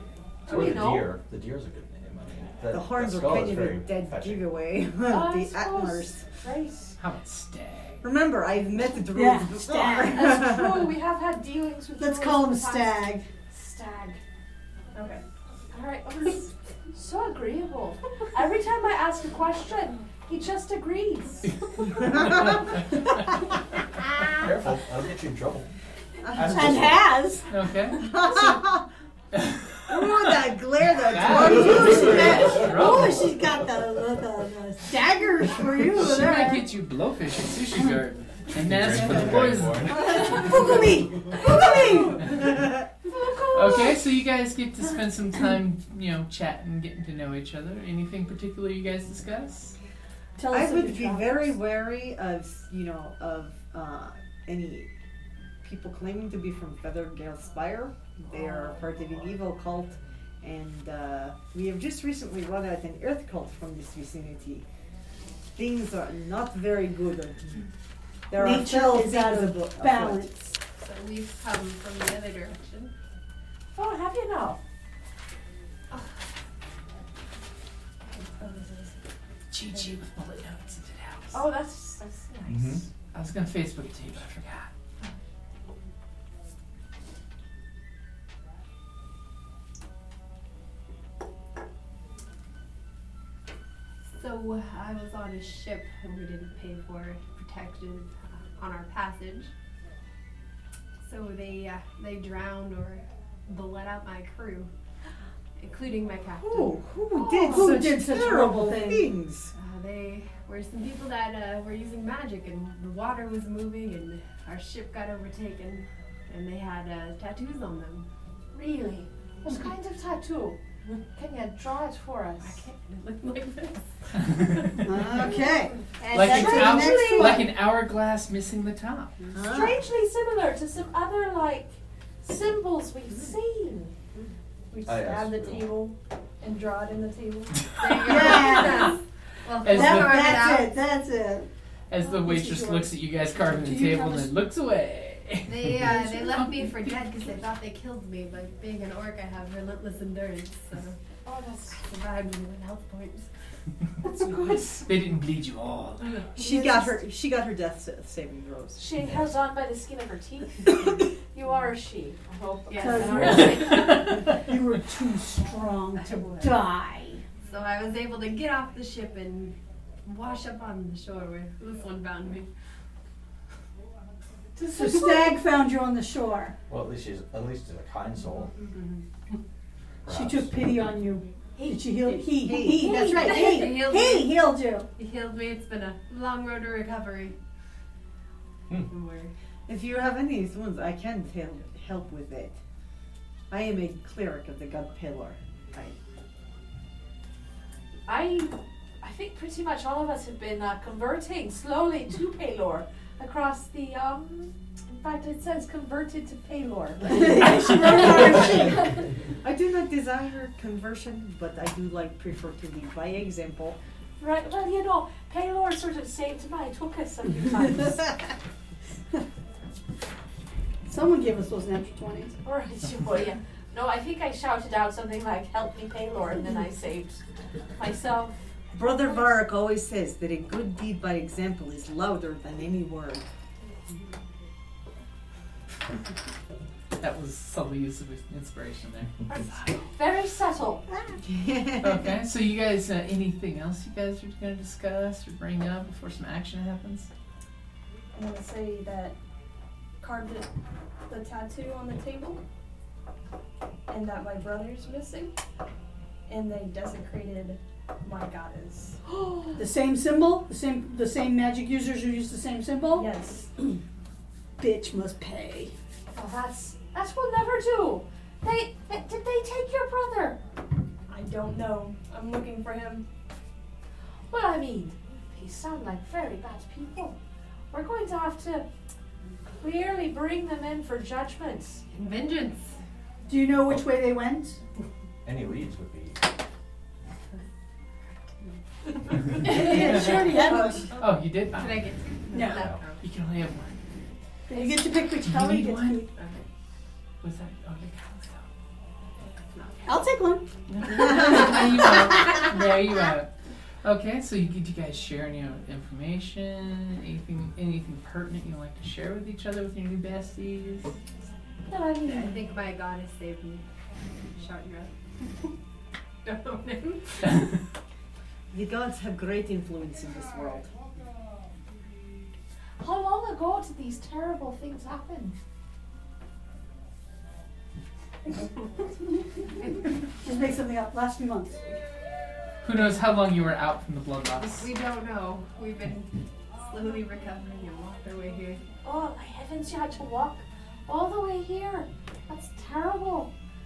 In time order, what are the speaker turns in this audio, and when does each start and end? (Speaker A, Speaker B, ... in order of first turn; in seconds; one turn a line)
Speaker A: 0.5-1.1
Speaker B: 0.5-4.5
Speaker C: 2.7-6.2
Speaker A: 5.1-7.0
Speaker D: 7.0-8.0
Speaker C: 8.0-10.9
Speaker E: 9.1-10.4
Speaker A: 10.1-14.2
Speaker E: 12.0-13.3
Speaker A: 15.7-21.6
Speaker B: 24.3-25.7
Speaker C: 26.3-26.9
Speaker B: 26.3-27.1
Speaker E: 26.4-27.4
Speaker D: 27.5-28.1
Speaker C: 28.0-28.8
Speaker C: 29.9-32.6
Speaker D: 31.1-33.3
Speaker E: 31.5-36.7
Speaker B: 31.7-32.4
Speaker D: 36.0-40.1
Speaker B: 38.5-40.7
Speaker C: 40.1-42.8
Speaker E: 40.1-42.2
Speaker A: 41.3-42.2
Speaker A: 43.0-44.0
Speaker D: 43.5-49.7
Speaker E: 50.4-51.5
Speaker C: 50.5-54.9
Speaker C: 55.6-64.6
Speaker C: 65.5-67.6
Speaker C: 68.3-70.4
Speaker E: 68.3-70.3
Speaker F: 70.7-72.9
Speaker A: 73.7-74.6
Speaker F: 78.1-78.9
Speaker D: 79.5-81.4
Speaker A: 81.3-82.8
Speaker B: 82.4-82.9
Speaker D: 83.1-84.7
Speaker F: 94.1-99.5
Speaker F: 101.0-104.7
Speaker F: 105.6-106.8
Speaker C: 106.3-109.5
Speaker A: 107.1-107.8
Speaker E: 107.5-109.1
Speaker F: 109.5-118.1
Speaker A: 118.5-120.6
Speaker A: 121.1-122.7
Speaker F: 122.4-123.8
Speaker E: 124.8-125.3
Speaker C: 124.8-127.4
Speaker E: 126.0-127.5
Speaker D: 126.1-129.2
Speaker A: 126.2-127.4
Speaker C: 129.3-129.8
Speaker A: 129.4-133.9
Speaker G: 134.7-137.7
Speaker B: 134.8-135.8
Speaker F: 137.7-140.7
Speaker E: 138.0-138.9
Speaker D: 139.6-140.4
Speaker E: 139.7-141.5
Speaker D: 141.9-147.1
Speaker E: 142.2-142.9
Speaker E: 143.5-144.3
Speaker F: 145.4-151.0
Speaker A: 151.2-151.8
Speaker F: 151.7-153.3
Speaker A: 154.0-154.9
Speaker D: 154.8-156.1
Speaker C: 156.3-158.9
Speaker E: 156.6-156.9
Speaker A: 158.8-164.2
Speaker F: 162.7-163.6
Speaker E: 162.8-167.2
Speaker F: 166.0-166.6
Speaker F: 167.4-172.5
Speaker F: 174.7-175.2
Speaker E: 174.7-176.6
Speaker B: 176.7-178.5
Speaker F: 178.8-179.0
Speaker B: 180.0-180.5
Speaker E: 180.1-184.9
Speaker F: 181.6-187.3
Speaker C: 182.4-183.7
Speaker F: 188.9-189.3
Speaker C: 189.7-192.6
Speaker C: 193.5-195.9
Speaker A: 198.1-208.6
Speaker E: 207.1-208.9
Speaker C: 209.4-213.8
Speaker A: 214.2-218.1
Speaker E: 220.8-222.3
Speaker A: 222.4-227.2
Speaker A: 227.8-228.3
Speaker C: 228.7-233.2
Speaker D: 237.0-239.7
Speaker A: 239.3-240.8
Speaker E: 240.9-241.2
Speaker C: 241.2-242.2
Speaker D: 241.8-247.1
Speaker G: 248.1-249.2
Speaker G: 250.0-250.5
Speaker G: 251.1-252.4
Speaker G: 253.9-255.3
Speaker G: 256.3-259.0
Speaker A: 259.1-259.6
Speaker E: 259.6-263.1
Speaker G: 262.9-263.5
Speaker E: 264.6-265.7
Speaker A: 266.1-270.4
Speaker G: 271.1-273.0
Speaker A: 274.3-277.2
Speaker A: 277.7-278.6
Speaker A: 279.6-281.8
Speaker F: 281.9-282.7
Speaker E: 283.3-284.6
Speaker B: 285.2-286.2
Speaker F: 288.4-293.0
Speaker E: 289.4-290.9
Speaker D: 291.0-291.9
Speaker E: 292.3-292.7
Speaker B: 292.5-292.8
Speaker D: 293.0-293.8
Speaker E: 294.5-296.1
Speaker D: 295.2-296.1
Speaker F: 296.2-296.4
Speaker D: 297.2-298.4
Speaker E: 299.8-301.9
Speaker D: 300.7-303.3
Speaker D: 303.8-310.9
Speaker A: 311.7-312.4
Speaker F: 312.0-313.6
Speaker F: 314.3-314.9
Speaker F: 316.2-317.3
Speaker C: 318.5-320.7
Speaker A: 322.8-325.3
Speaker E: 330.2-331.6
Speaker D: 332.6-334.7
Speaker F: 334.4-336.1
Speaker F: 336.6-338.6
Speaker A: 338.8-343.3